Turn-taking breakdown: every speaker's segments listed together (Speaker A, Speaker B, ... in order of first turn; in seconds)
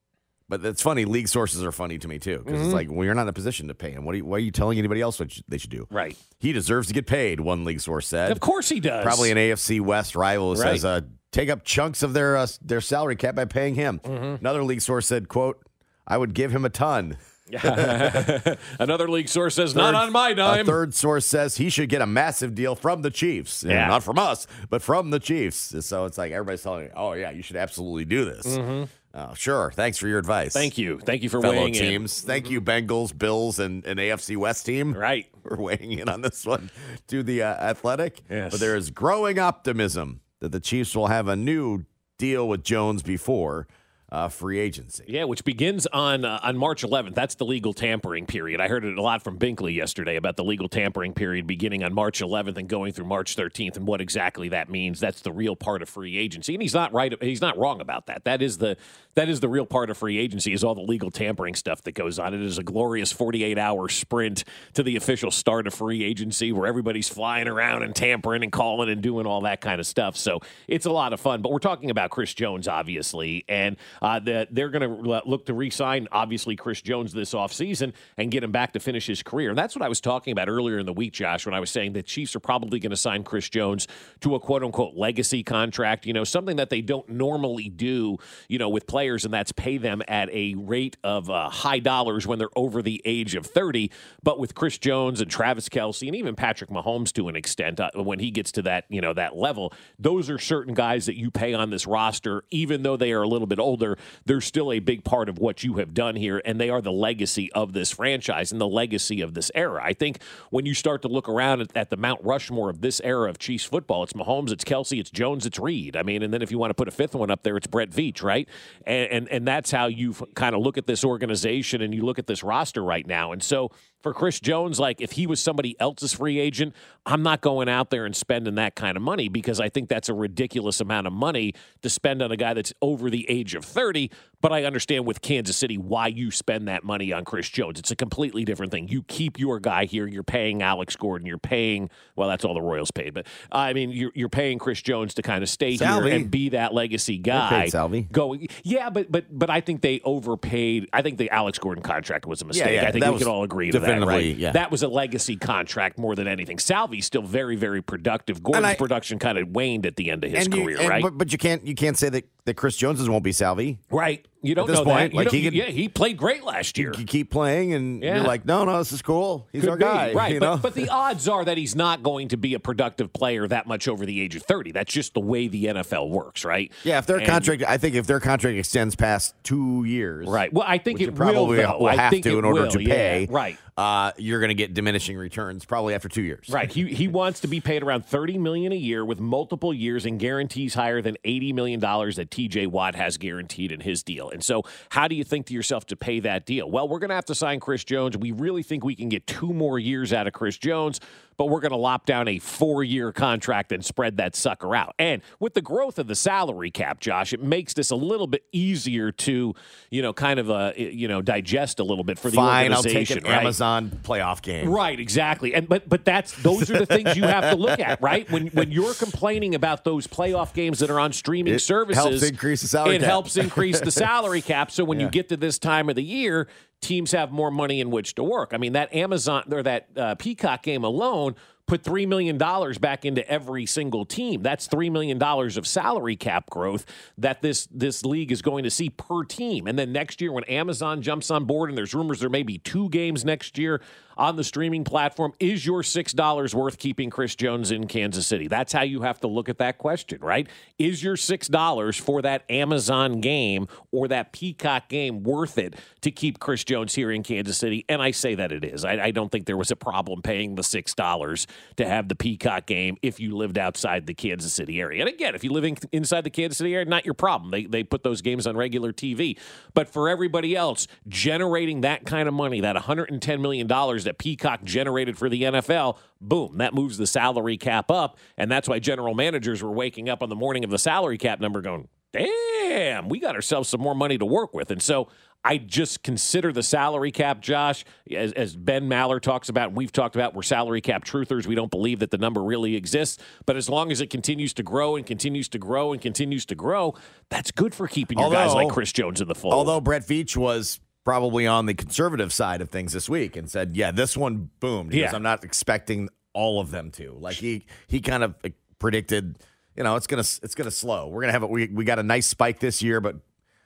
Speaker A: 0.5-8.4, 9.0-18.3, 19.7-30.7, 31.4-45.1, 145.7-146.3, 147.3-148.1, 152.5-154.6, 158.5-158.8, 160.3-163.8, 164.6-165.7, 166.8-170.9, 176.8-186.6, 212.2-214.8, 216.5-218.0, 221.4-224.0, 224.9-225.1, 298.1-298.8, 299.5-313.2
Speaker B: 2.5-2.8, 5.9-6.2, 8.2-9.3, 10.5-10.8, 14.0-14.4, 17.5-20.8, 23.7-24.0, 28.4-28.9, 30.5-32.5, 34.9-35.3, 38.3-38.7, 45.1-161.1, 163.9-167.0, 168.0-168.3, 169.6-177.5, 180.2-183.6, 186.5-213.6, 214.6-222.3, 222.8-299.8, 304.9-305.2